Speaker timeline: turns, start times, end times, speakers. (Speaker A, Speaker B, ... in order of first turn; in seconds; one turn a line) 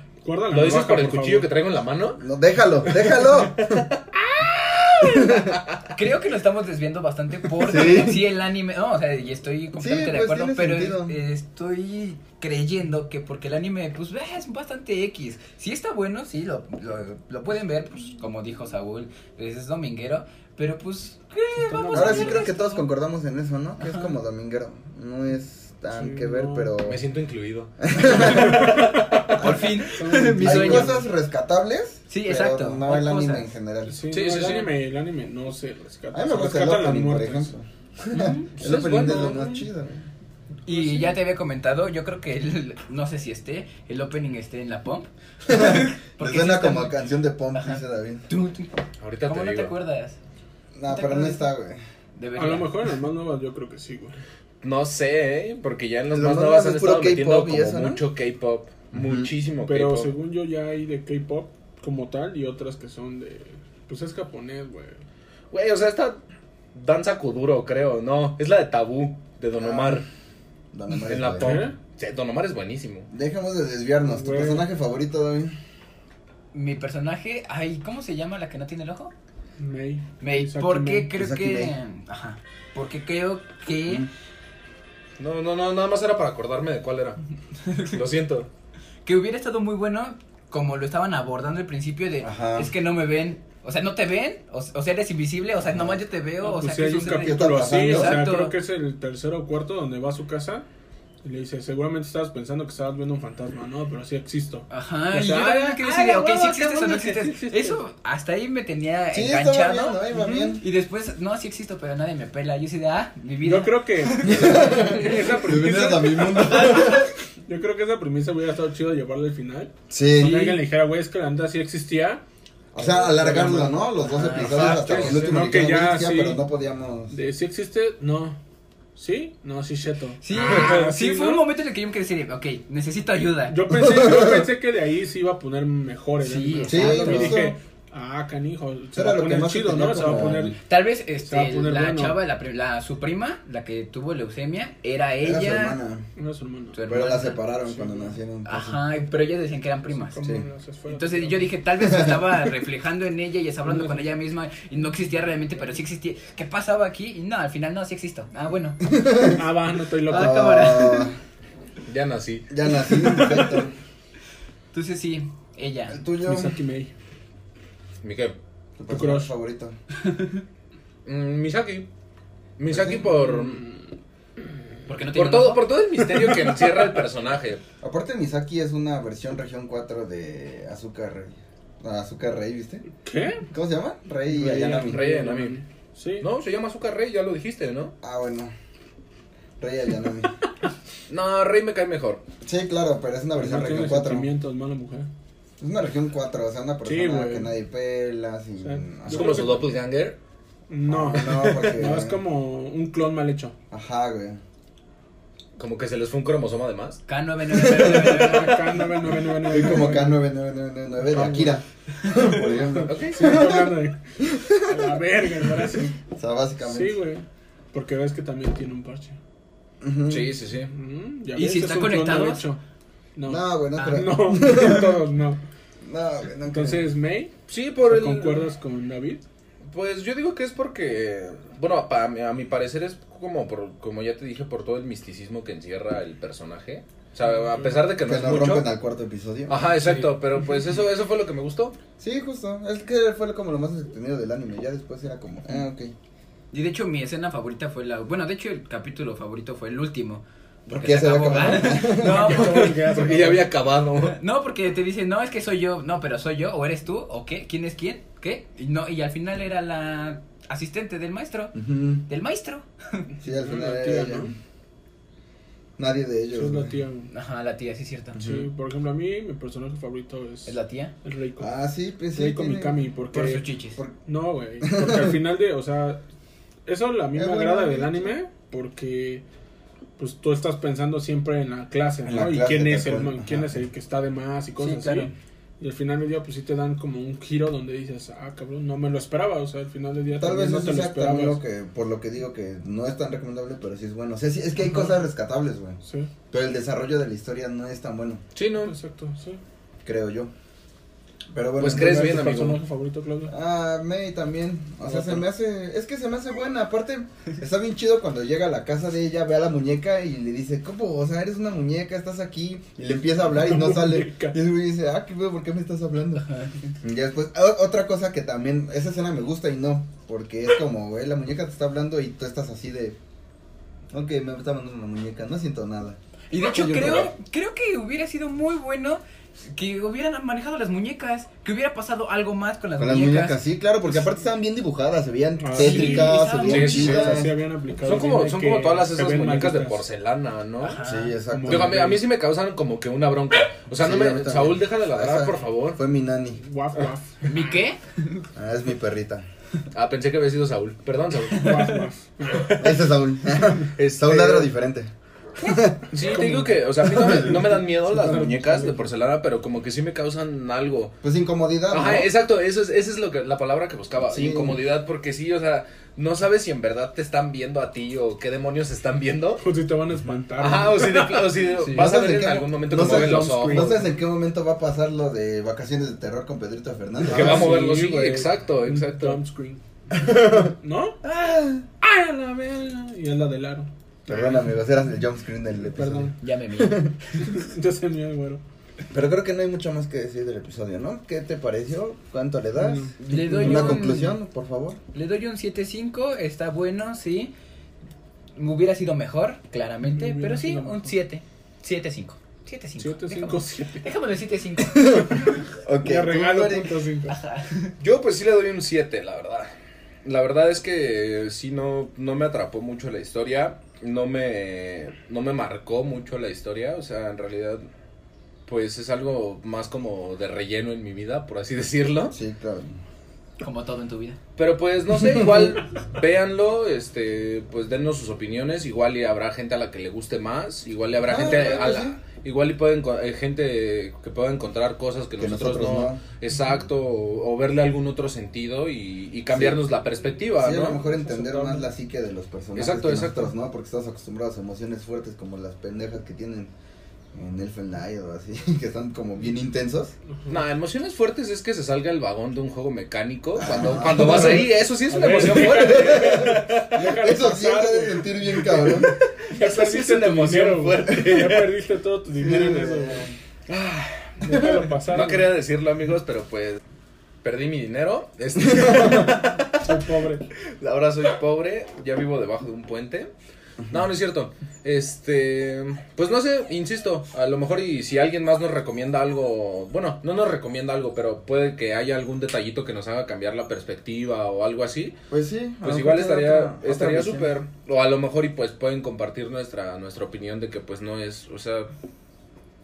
Speaker A: 0.2-1.5
Speaker B: 0.5-2.2
Speaker C: 2.2-3.9
Speaker B: 2.9-5.8
Speaker C: 5.0-5.6
Speaker D: 5.9-22.9
Speaker C: 7.6-8.3
Speaker C: 9.8-11.2
Speaker A: 21.6-22.5
Speaker C: 21.9-27.0
Speaker D: 23.8-24.1
Speaker A: 25.9-26.7
Speaker B: 26.8-29.4
Speaker C: 27.8-34.0
Speaker A: 28.2-28.8
Speaker D: 29.4-31.0
Speaker A: 29.9-31.0
Speaker D: 32.1-33.5
Speaker A: 33.9-37.5
Speaker B: 34.1-34.8
Speaker C: 36.1-40.1
Speaker D: 38.1-38.5
Speaker B: 38.6-39.6
Speaker D: 40.6-47.0
Speaker A: 40.7-41.1
Speaker C: 45.5-48.3
Speaker D: 47.5-50.2
Speaker B: 49.0-49.7
Speaker C: 50.8-51.8
Speaker D: 50.9-51.5
Speaker D: 52.1-52.8
Speaker A: 52.4-54.2
Speaker B: 54.6-60.1
Speaker C: 56.1-58.0
Speaker C: 58.9-59.3
Speaker A: 59.6-65.0
Speaker B: 65.5-66.2
Speaker B: 66.7-70.1
Speaker C: 69.6-70.0
Speaker C: 70.7-71.6
Speaker B: 71.0-73.1
Speaker A: 71.4-71.8
Speaker C: 73.1-75.5
Speaker A: 74.0-74.6
Speaker D: 76.5-79.1
Speaker A: 79.6-81.1
Speaker D: 80.2-84.1
Speaker C: 81.1-81.8
Speaker B: 85.2-87.2
Speaker D: 87.6-88.0
Speaker B: 87.9-88.5
Speaker D: 89.0-98.5
Speaker C: 92.2-92.7
Speaker C: 95.7-96.0
Speaker A: 96.4-100.7
Speaker C: 97.1-98.3
Speaker A: 101.2-107.8
Speaker D: 104.7-110.0
Speaker C: 109.1-110.6
Speaker A: 110.1-110.6
Speaker D: 110.6-115.4
Speaker A: 113.4-122.2
Speaker C: 114.2-117.1
Speaker D: 116.0-117.0
Speaker C: 119.9-120.6
Speaker C: 122.7-127.1
Speaker A: 122.8-126.4
Speaker D: 124.0-125.3
Speaker B: 124.9-125.2
Speaker A: 127.1-128.4
Speaker A: 129.0-131.5
Speaker D: 130.2-133.8
Speaker A: 133.5-140.6
Speaker C: 133.7-134.5
Speaker D: 136.2-137.4
Speaker C: 136.7-137.6
Speaker C: 138.9-140.6
Speaker D: 140.0-145.8
Speaker A: 141.3-142.2
Speaker C: 145.2-146.1
Speaker A: 146.2-146.8
Speaker D: 146.7-147.4
Speaker C: 146.9-148.8
Speaker A: 147.6-148.2
Speaker D: 148.4-150.2
Speaker A: 149.9-151.5
Speaker D: 150.9-158.9
Speaker C: 151.8-152.3
Speaker A: 153.6-154.1
Speaker C: 158.8-159.4
Speaker A: 159.2-160.7
Speaker D: 160.1-161.1
Speaker C: 160.1-161.2
Speaker B: 161.9-162.5
Speaker C: 162.5-163.7
Speaker D: 163.1-163.5
Speaker D: 164.7-166.0
Speaker C: 165.9-166.6
Speaker A: 166.2-166.9
Speaker B: 168.0-168.3
Speaker C: 168.8-169.8
Speaker A: 168.9-169.3
Speaker B: 171.1-171.9
Speaker B: 172.6-173.6
Speaker C: 172.7-173.0
Speaker A: 173.1-173.8
Speaker D: 174.9-175.7
Speaker B: 175.1-177.6
Speaker A: 176.0-177.1
Speaker C: 177.8-182.8
Speaker A: 183.0-183.5
Speaker C: 183.5-185.1
Speaker A: 184.3-186.3
Speaker B: 184.7-185.6
Speaker B: 186.2-187.9
Speaker C: 188.0-188.5
Speaker C: 189.6-190.3
Speaker B: 191.1-192.2
Speaker C: 192.4-194.3
Speaker A: 193.4-195.1
Speaker C: 195.6-199.6
Speaker A: 196.8-197.5
Speaker A: 198.6-199.7
Speaker B: 199.1-200.2
Speaker A: 200.7-203.6
Speaker C: 200.9-202.2
Speaker C: 203.7-204.4
Speaker B: 205.6-207.0
Speaker D: 207.1-208.8
Speaker C: 207.5-208.4
Speaker A: 207.8-210.2
Speaker C: 209.4-217.0
Speaker A: 211.0-211.6
Speaker A: 212.1-215.9
Speaker B: 212.8-213.2
Speaker A: 216.6-219.2
Speaker C: 219.8-220.4
Speaker B: 220.1-220.7
Speaker A: 220.7-222.6
Speaker D: 221.3-222.5
Speaker A: 223.2-225.4
Speaker C: 223.2-225.0
Speaker C: 225.8-226.9
Speaker A: 226.5-227.3
Speaker B: 227.5-228.5
Speaker A: 227.8-229.2
Speaker B: 229.7-238.7
Speaker A: 237.3-237.8
Speaker C: 238.0-239.7
Speaker B: 239.5-241.8
Speaker C: 242.0-245.9
Speaker D: 246.5-250.2
Speaker C: 250.7-252.4
Speaker D: 250.8-253.1
Speaker A: 251.8-253.5
Speaker B: 252.4-254.2
Speaker D: 254.0-263.1
Speaker C: 261.5-262.0
Speaker C: 263.2-264.3
Speaker A: 263.3-264.3
Speaker C: 265.8-266.8
Speaker A: 266.3-267.1
Speaker D: 267.1-268.2
Speaker C: 268.1-268.5
Speaker A: 268.2-271.5
Speaker D: 270.5-270.9
Speaker C: 271.4-272.8
Speaker A: 272.1-273.4
Speaker D: 273.1-273.8
Speaker A: 274.1-276.0
Speaker C: 274.6-275.1
Speaker A: 276.6-279.2
Speaker C: 277.1-278.1
Speaker A: 280.0-291.4
Speaker C: 282.1-283.6
Speaker D: 284.6-285.1
Speaker C: 290.2-295.8
Speaker A: 294.6-294.9
Speaker A: 295.8-296.1
Speaker C: 296.3-298.2
Speaker B: 298.4-298.8
Speaker A: 298.6-299.4
Speaker C: 299.9-300.3
Speaker C: 301.3-302.2
Speaker B: 301.6-302.6
Speaker A: 301.6-303.3
Speaker C: 303.3-316.3
Speaker A: 304.8-305.2
Speaker A: 313.3-314.4
Speaker D: 316.3-316.5
Speaker C: 316.8-323.0
Speaker C: 323.9-327.1
Speaker D: 326.3-333.4
Speaker C: 332.8-337.3
Speaker A: 335.4-339.8
Speaker D: 335.5-337.0
Speaker B: 336.4-337.3
Speaker B: 337.8-340.8
Speaker D: 340.6-341.2
Speaker C: 340.8-341.9
Speaker A: 341.3-342.0
Speaker B: 341.5-345.8
Speaker C: 343.8-346.4
Speaker A: 346.4-347.6
Speaker D: 347.3-348.3
Speaker C: 348.4-349.3
Speaker B: 349.7-351.6
Speaker A: 351.4-352.6
Speaker B: 352.3-352.8
Speaker C: 352.6-355.9
Speaker B: 353.6-354.5
Speaker B: 355.9-360.9
Speaker A: 355.9-358.8
Speaker C: 361.0-362.1
Speaker B: 361.7-369.4
Speaker C: 364.1-364.6
Speaker A: 369.4-371.9
Speaker B: 370.4-373.8
Speaker C: 371.7-377.6
Speaker A: 372.7-373.9
Speaker A: 377.0-381.0
Speaker B: 377.0-379.2
Speaker C: 379.9-380.5
Speaker C: 381.0-381.6
Speaker A: 381.8-384.4
Speaker C: 384.1-387.2
Speaker A: 385.6-386.1
Speaker D: 386.2-387.3
Speaker A: 387.2-388.4
Speaker C: 388.9-394.8
Speaker A: 392.6-394.0
Speaker D: 393.0-394.2
Speaker D: 394.9-397.3
Speaker D: 398.4-405.3
Speaker A: 399.8-401.0
Speaker A: 402.8-403.9
Speaker C: 404.6-406.8
Speaker A: 405.9-407.2
Speaker D: 407.1-407.7
Speaker B: 407.8-409.5
Speaker B: 410.0-417.6
Speaker B: 418.5-422.1
Speaker C: 422.1-422.8
Speaker D: 423.4-424.2
Speaker B: 424.4-440.8
Speaker C: 431.1-432.0
Speaker C: 435.2-436.0
Speaker C: 439.3-439.6
Speaker C: 440.4-446.5
Speaker A: 440.6-441.7
Speaker B: 442.6-443.3
Speaker C: 447.1-449.9
Speaker A: 450.1-450.4
Speaker B: 450.3-456.9
Speaker C: 453.4-454.5
Speaker A: 454.0-458.7
Speaker C: 455.1-458.9
Speaker B: 458.5-461.6
Speaker A: 459.3-463.1
Speaker C: 462.2-463.1
Speaker B: 463.5-464.1
Speaker A: 464.2-465.3
Speaker C: 464.2-464.7
Speaker B: 464.9-466.6
Speaker B: 467.2-469.7
Speaker C: 468.4-469.1
Speaker A: 469.6-470.3
Speaker B: 470.5-473.1
Speaker B: 473.7-485.0
Speaker C: 485.1-487.3
Speaker B: 485.6-491.7